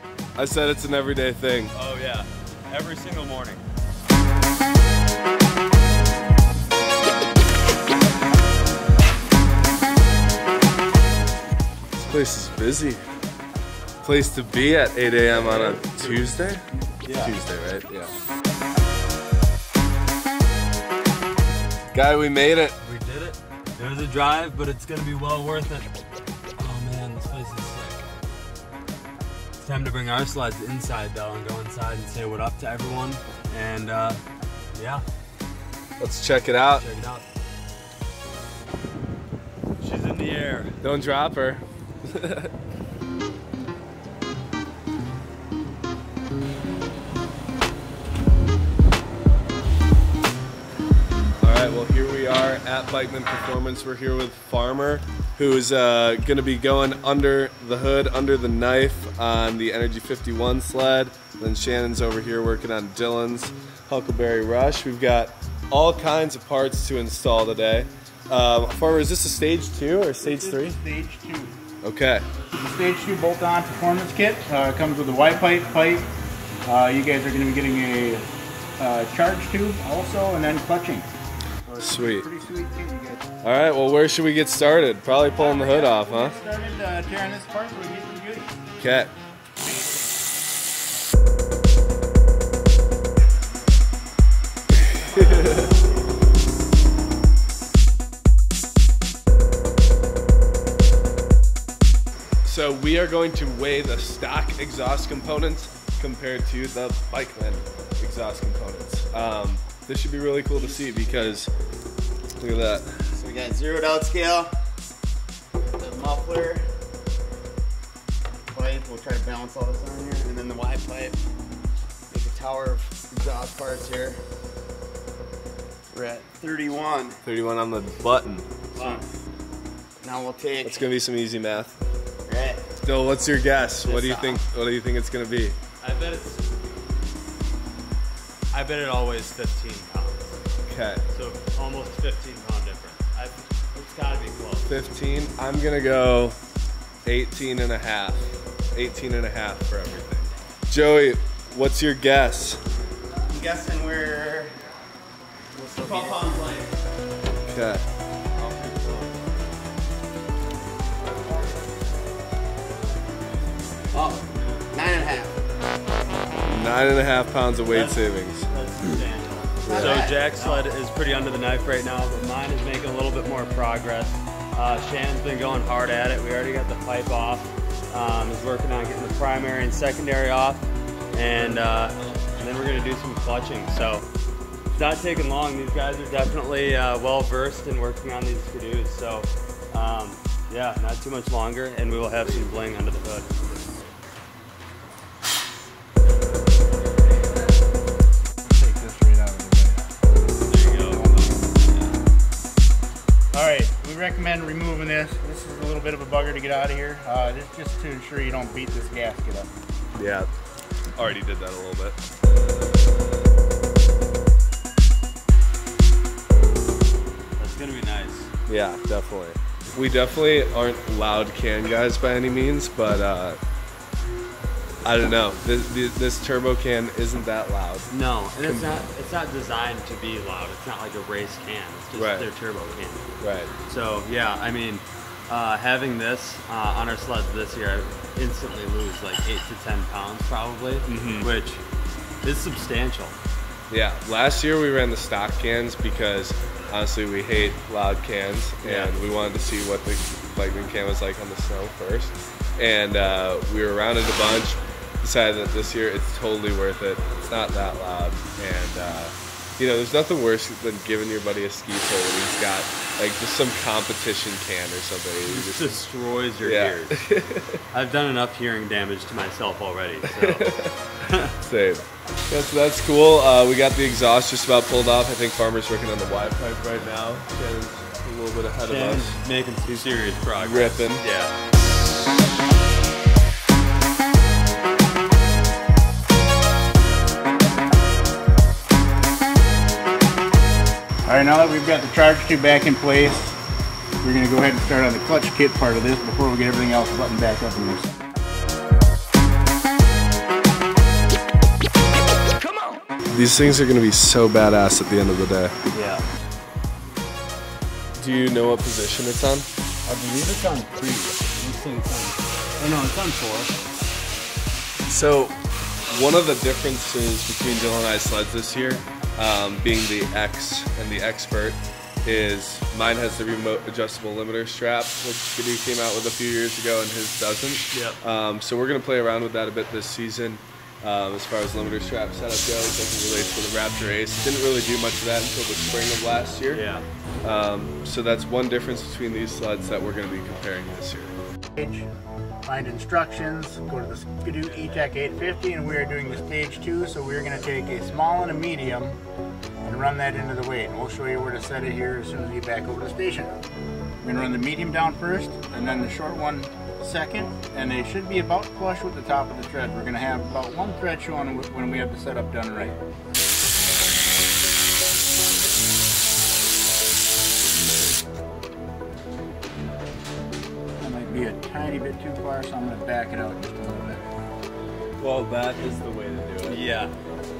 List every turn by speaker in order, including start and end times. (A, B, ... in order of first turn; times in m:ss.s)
0:00.4-0:01.7 A
0:01.7-0:03.6 B
0:12.0-0:13.0 A
0:14.0-0:18.1 A
0:15.2-0:16.2 B
0:17.0-0:17.3 B
0:21.9-0:22.8 A
0:22.8-0:25.9 B
0:26.6-0:28.1 B
0:29.6-0:34.2 B
0:34.7-0:35.0 B
0:36.0-0:36.8 A
0:36.7-0:37.2 B
0:39.8-0:40.7 B
0:40.8-0:42.5 A
0:51.4-1:10.8 A
1:10.2-1:11.6 C
1:11.8-1:12.2 A
1:12.6-1:16.1 C
1:16.6-1:18.2 C
1:18.8-1:21.1 C
1:21.6-1:23.2 C
1:21.8-1:22.3 A
1:23.4-1:26.3 A
1:25.3-1:28.7 C
1:28.8-1:29.1 A
1:29.6-1:30.1 C
1:35.0-1:35.6 A
1:42.4-1:51.5 A
1:52.4-1:52.9 A
1:53.1-1:54.6 D
1:55.8-1:56.7 D
1:58.5-2:01.2 D
2:02.1-2:04.2 D
2:05.9-2:07.2 D
2:07.2-2:08.5 A
2:08.7-2:09.1 B
2:08.8-2:09.1 D
2:10.0-2:10.8 D
2:10.6-2:11.8 A
2:12.2-2:12.6 D
2:12.8-2:15.6 A
2:13.8-2:14.3 D
2:15.8-2:16.5 B
2:18.5-2:20.4 B
2:20.6-2:21.0 A
2:21.1-2:24.7 B
2:24.7-2:26.4 A
2:27.0-2:32.6 A
2:33.3-2:34.6 D
2:35.5-2:36.7 D
2:37.5-2:37.8 A
2:38.4-2:39.0 D
2:41.1-2:41.5 D
2:43.9-2:45.4 D
2:46.4-2:48.5 A
2:47.7-3:04.1 B
2:49.6-2:50.1 A
2:49.7-2:50.6 D
3:04.7-3:13.6 B
3:18.5-3:21.5 C
3:20.4-3:22.0 B
3:23.3-3:29.5 C
3:30.0-3:30.3 A
3:31.0-3:32.0 A
3:37.4-3:38.3 B
3:38.5-3:43.4 A
3:44.8-3:47.9 A
3:47.9-3:53.1 B
3:48.4-3:48.7 A
3:51.9-3:52.3 A
3:53.2-3:53.5 A
3:53.6-4:01.6 B
4:00.8-4:01.3 A
4:02.2-4:03.2 B
4:03.7-4:25.8 A
4:08.6-4:08.9 B
4:25.3-4:27.0 B
4:26.4-4:27.6 A
4:27.7-4:30.5 B
4:30.0-4:30.7 A
4:31.0-4:31.3 B
4:31.4-4:39.2 A
4:38.6-4:41.3 B
4:40.4-4:41.0 A
4:51.0-4:53.4 C
4:54.0-4:57.9 C
5:03.1-5:05.5 A
5:05.7-5:06.0 B
5:08.0-5:09.5 A
5:09.8-5:13.6 B
5:14.8-5:15.4 A
5:15.9-5:36.6 A
5:27.7-5:28.0 B
5:36.5-5:36.8 B
5:37.2-5:41.1 A
5:41.6-5:41.8 C
5:42.4-5:49.0 C
5:49.6-5:53.4 C
5:54.0-6:02.8 C
6:10.8-6:14.1 C
6:15.0-6:16.6 A
6:16.4-6:16.9 B